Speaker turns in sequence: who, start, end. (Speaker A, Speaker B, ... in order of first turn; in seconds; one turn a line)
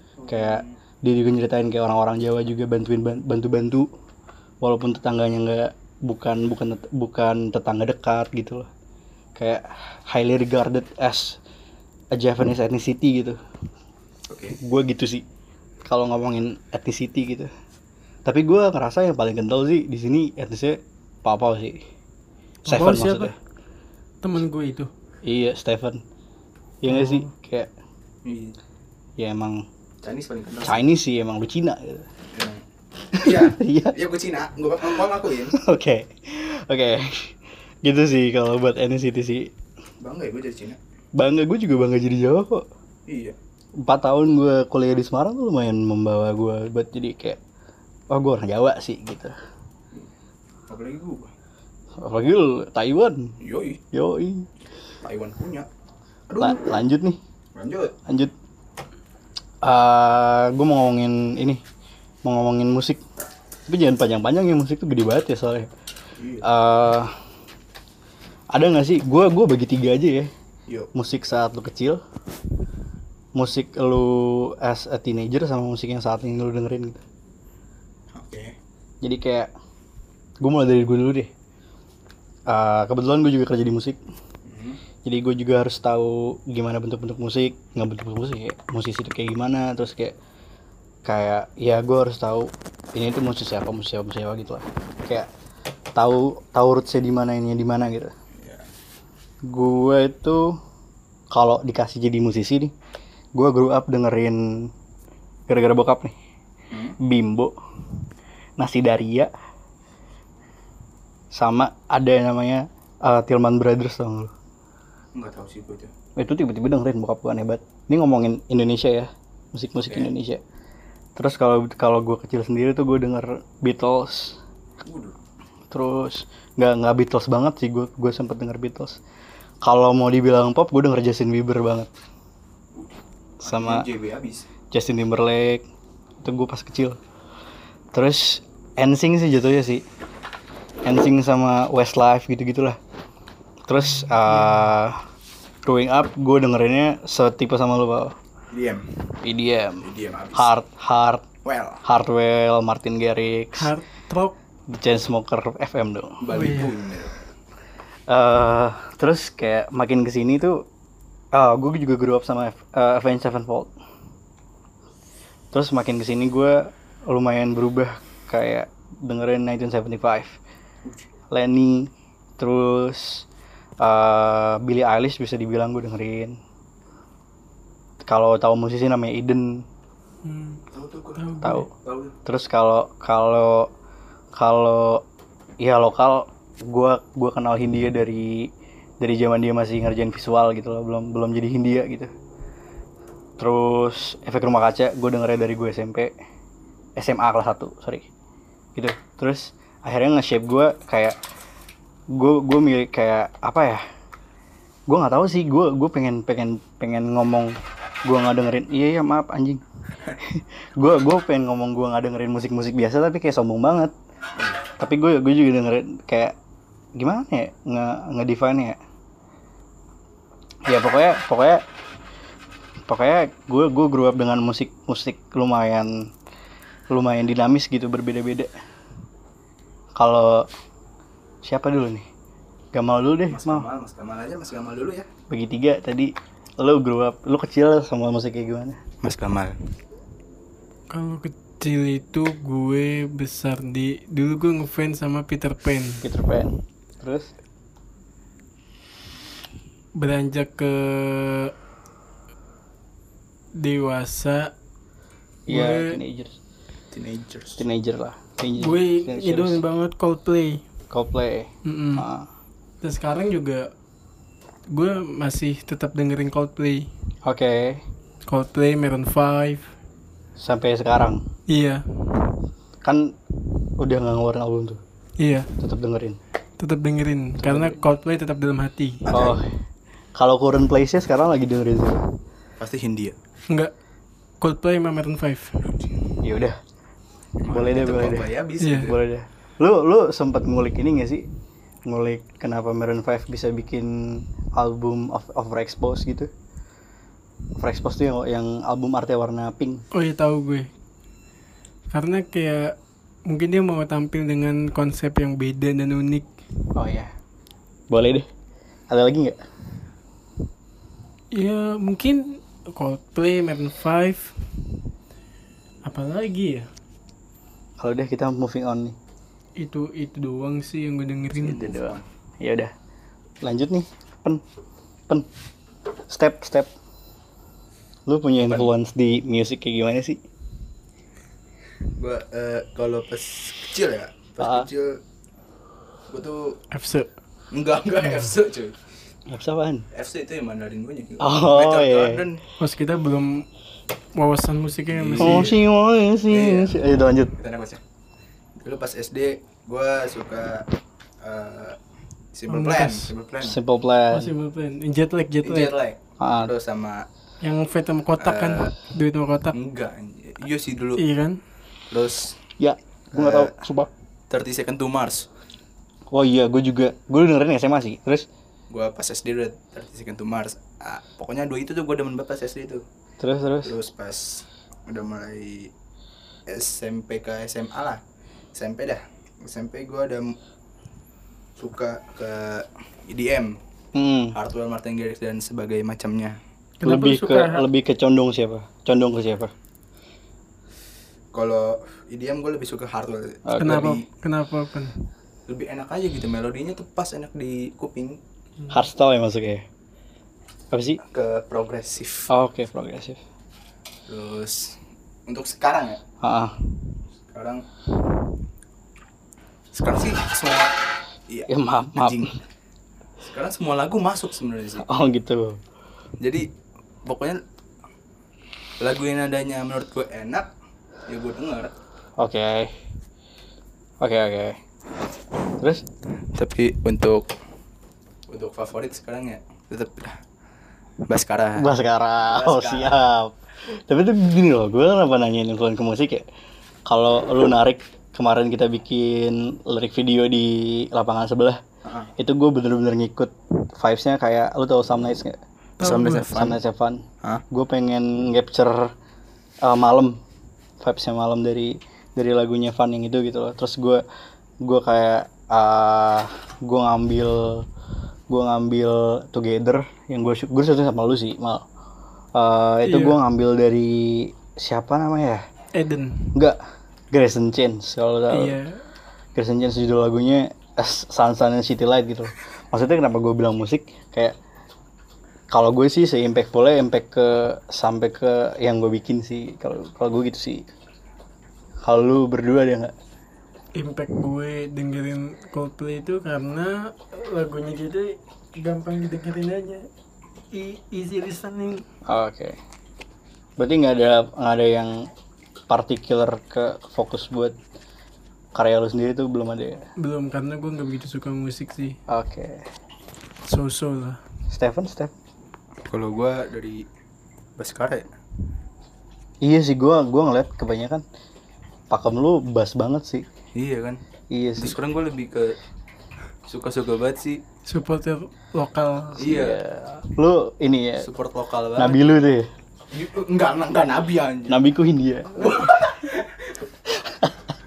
Speaker A: 0.2-0.7
Speaker B: 0.3-3.9
Speaker B: 4.6-8.7
Speaker B: 9.3-11.4
Speaker B: 12.1-13.4
Speaker A: 14.3-14.6
Speaker B: 14.6-15.2
Speaker B: 15.8-17.5
Speaker B: 18.2-21.8
Speaker C: 22.6-23.3
Speaker B: 22.6-23.3
Speaker C: 24.2-24.9
Speaker B: 25.2-26.0
Speaker B: 26.8-27.7
Speaker C: 26.9-27.3
Speaker A: 28.2-28.6
Speaker B: 29.2-29.6
Speaker A: 30.0-30.8
Speaker B: 30.6-32.1
Speaker A: 32.3-32.6
Speaker B: 33.1-34.0
Speaker A: 33.2-35.5
Speaker B: 35.5-39.5
Speaker A: 40.0-40.8
Speaker B: 41.1-42.6
Speaker A: 43.1-43.3
Speaker B: 43.8-47.4
Speaker B: 48.1-49.3
Speaker A: 50.7-51.3
Speaker B: 52.0-53.3
Speaker A: 53.4-53.8
Speaker B: 53.9-54.5
Speaker A: 55.0-55.7
Speaker A: 56.3-56.6
Speaker B: 56.4-57.2
Speaker A: 57.5-58.0
Speaker B: 58.1-58.3
Speaker B: 59.6-61.6
Speaker B: 62.2-63.0
Speaker B: 63.7-65.7
Speaker A: 66.2-66.4
Speaker B: 66.4-67.1
Speaker B: 68.5-70.3
Speaker B: 70.9-72.0
Speaker B: 73.3-77.0
Speaker A: 78.1-78.5
Speaker B: 79.0-79.5
Speaker B: 80.4-81.3
Speaker B: 82.5-84.0
Speaker A: 84.5-84.8
Speaker B: 85.0-90.2
Speaker B: 91.0-95.3
Speaker B: 96.0-98.1
Speaker A: 98.4-98.7
Speaker B: 99.5-100.6
Speaker B: 101.3-102.7
Speaker B: 103.3-104.7
Speaker B: 105.5-106.1
Speaker A: 106.7-107.0
Speaker B: 107.0-107.5
Speaker B: 108.6-109.3
Speaker B: 111.3-114.3
Speaker A: 115.1-115.9
Speaker B: 116.2-120.4
Speaker B: 121.2-124.4
Speaker A: 124.8-125.2
Speaker B: 125.7-129.0
Speaker B: 129.6-131.9
Speaker B: 133.4-133.9
Speaker A: 133.4-134.4
Speaker B: 134.7-135.6
Speaker B: 136.2-137.0
Speaker B: 137.9-139.8
Speaker B: 140.8-142.8
Speaker B: 143.7-145.0
Speaker B: 145.6-148.1
Speaker A: 148.5-148.9
Speaker B: 149.2-151.3
Speaker A: 149.8-150.5
Speaker A: 151.4-151.8
Speaker B: 151.8-153.7
Speaker C: 153.5-154.3
Speaker B: 154.7-156.2
Speaker A: 156.2-157.2
Speaker C: 156.3-156.7
Speaker B: 158.1-160.6
Speaker B: 161.3-163.7
Speaker B: 165.5-170.4
Speaker B: 171.3-173.2
Speaker B: 173.8-176.4
Speaker B: 178.0-179.6
Speaker C: 180.2-180.6
Speaker A: 180.7-181.2
Speaker C: 181.2-181.7
Speaker B: 181.4-181.7
Speaker A: 181.8-182.1
Speaker B: 182.2-183.7
Speaker B: 184.3-185.0
Speaker B: 185.6-192.1
Speaker B: 193.4-196.1
Speaker B: 197.0-198.1
Speaker B: 198.8-201.2
Speaker B: 202.1-203.8
Speaker B: 204.9-207.5
Speaker B: 208.1-209.6
Speaker B: 210.2-213.9
Speaker B: 214.8-216.3
Speaker B: 217.0-218.8
Speaker B: 220.7-221.6
Speaker B: 222.9-226.1
Speaker B: 226.9-228.5
Speaker B: 229.9-230.5
Speaker B: 231.4-232.1
Speaker B: 232.7-233.7
Speaker A: 233.3-235.1
Speaker B: 235.3-238.8
Speaker A: 239.0-239.6
Speaker C: 240.9-246.0
Speaker B: 246.0-247.3
Speaker C: 250.0-251.5
Speaker C: 253.6-254.5
Speaker B: 255.5-256.4
Speaker C: 255.5-256.0
Speaker A: 256.9-257.6
Speaker B: 257.6-259.6
Speaker C: 258.6-260.6
Speaker B: 260.9-262.3
Speaker C: 261.6-262.0
Speaker C: 262.8-263.7
Speaker C: 264.7-266.9
Speaker B: 267.2-267.8
Speaker C: 268.3-269.7
Speaker B: 270.4-271.2
Speaker C: 271.5-271.8
Speaker B: 272.8-273.1
Speaker B: 273.8-274.8
Speaker C: 275.2-275.5
Speaker B: 275.6-276.2
Speaker C: 276.6-279.0
Speaker B: 277.4-277.8
Speaker A: 279.1-279.4
Speaker B: 279.1-279.5
Speaker B: 280.1-282.1
Speaker A: 282.6-283.1
Speaker C: 284.4-285.7
Speaker B: 286.2-286.6
Speaker A: 287.4-289.0
Speaker B: 287.5-288.3
Speaker C: 288.6-288.9
Speaker B: 288.8-291.3
Speaker B: 291.9-296.3
Speaker B: 297.6-299.8
Speaker C: 299.9-300.7
Speaker C: 301.9-302.8
Speaker C: 303.3-306.3
Speaker B: 306.7-307.1
Speaker B: 307.9-308.3
Speaker B: 308.9-309.4
Speaker C: 311.3-314.4
Speaker C: 315.8-316.7
Speaker B: 317.8-318.9
Speaker C: 319.6-321.8
Speaker A: 321.4-322.0
Speaker B: 321.7-322.7
Speaker B: 323.4-324.4
Speaker B: 326.1-326.7
Speaker B: 328.1-330.2
Speaker A: 331.9-335.0
Speaker B: 334.4-334.7
Speaker A: 336.1-336.6
Speaker C: 336.7-337.1
Speaker A: 337.5-338.7
Speaker B: 339.3-339.9
Speaker A: 339.9-342.4
Speaker B: 341.2-342.2
Speaker C: 342.6-343.4
Speaker C: 344.1-345.5
Speaker A: 344.9-345.6
Speaker B: 345.2-347.3
Speaker A: 346.3-346.8
Speaker A: 347.4-347.8
Speaker A: 348.6-350.6
Speaker A: 351.2-351.8
Speaker A: 352.3-353.6
Speaker C: 352.5-353.1
Speaker B: 353.4-354.3
Speaker C: 354.1-355.7
Speaker A: 355.4-357.1
Speaker B: 356.2-356.5
Speaker C: 357.4-359.5
Speaker A: 358.2-358.7
Speaker A: 359.5-361.0
Speaker C: 361.0-361.4
Speaker A: 361.9-362.4
Speaker B: 362.6-363.9
Speaker A: 363.1-363.5
Speaker A: 364.3-365.3
Speaker B: 366.1-368.3
Speaker A: 368.7-372.8
Speaker B: 373.2-373.7
Speaker A: 373.6-375.7
Speaker A: 376.5-378.0
Speaker A: 378.5-380.3
Speaker A: 381.6-383.6
Speaker B: 383.9-384.4
Speaker A: 384.3-386.4
Speaker C: 386.8-387.6
Speaker B: 386.8-389.5
Speaker A: 391.3-394.0
Speaker B: 393.4-393.9
Speaker C: 393.6-395.0
Speaker A: 395.5-398.2
Speaker B: 398.7-399.6
Speaker B: 400.7-401.0
Speaker A: 401.1-402.3
Speaker B: 402.3-403.2
Speaker A: 404.1-404.8
Speaker A: 405.3-406.0
Speaker B: 406.2-406.6
Speaker A: 407.3-407.6
Speaker A: 409.7-410.7
Speaker A: 411.3-412.3
Speaker B: 411.5-412.3
Speaker A: 413.2-414.9
Speaker B: 414.8-415.6
Speaker A: 416.2-416.4
Speaker A: 417.1-417.4
Speaker A: 418.8-420.5
Speaker A: 421.1-421.7
Speaker B: 422.2-422.7
Speaker B: 424.0-424.6
Speaker B: 425.6-425.8
Speaker A: 426.3-427.3
Speaker A: 428.3-430.2
Speaker A: 431.1-431.7
Speaker B: 431.6-436.2
Speaker A: 432.3-433.0
Speaker B: 436.9-441.6
Speaker A: 441.8-442.1
Speaker B: 442.2-445.4
Speaker C: 445.8-446.3
Speaker A: 445.8-446.6
Speaker B: 446.2-448.9
Speaker B: 449.6-450.2
Speaker B: 450.8-454.0
Speaker B: 454.6-457.6
Speaker B: 458.3-461.6
Speaker B: 462.3-465.4
Speaker C: 462.8-463.2
Speaker C: 465.7-466.4
Speaker B: 467.1-468.6
Speaker C: 468.3-468.8
Speaker B: 469.3-474.4
Speaker B: 475.5-480.6
Speaker B: 481.8-482.9
Speaker C: 483.8-489.9
Speaker C: 490.5-491.8
Speaker B: 492.1-492.6
Speaker B: 493.6-495.1
Speaker B: 495.7-497.6
Speaker B: 498.5-499.8
Speaker C: 500.0-502.0
Speaker B: 502.1-502.6
Speaker C: 503.4-504.2
Speaker B: 504.5-505.1
Speaker A: 505.9-506.8
Speaker A: 507.6-508.1
Speaker B: 509.4-511.0
Speaker B: 511.9-513.3
Speaker A: 513.5-514.0
Speaker B: 514.3-514.8
Speaker A: 514.6-515.5
Speaker A: 516.5-517.4
Speaker C: 517.7-519.3
Speaker A: 519.2-519.6
Speaker B: 519.2-521.1
Speaker A: 521.0-522.1
Speaker B: 521.8-522.5
Speaker A: 522.9-524.6
Speaker B: 524.5-525.7
Speaker A: 525.4-526.6
Speaker B: 526.9-527.5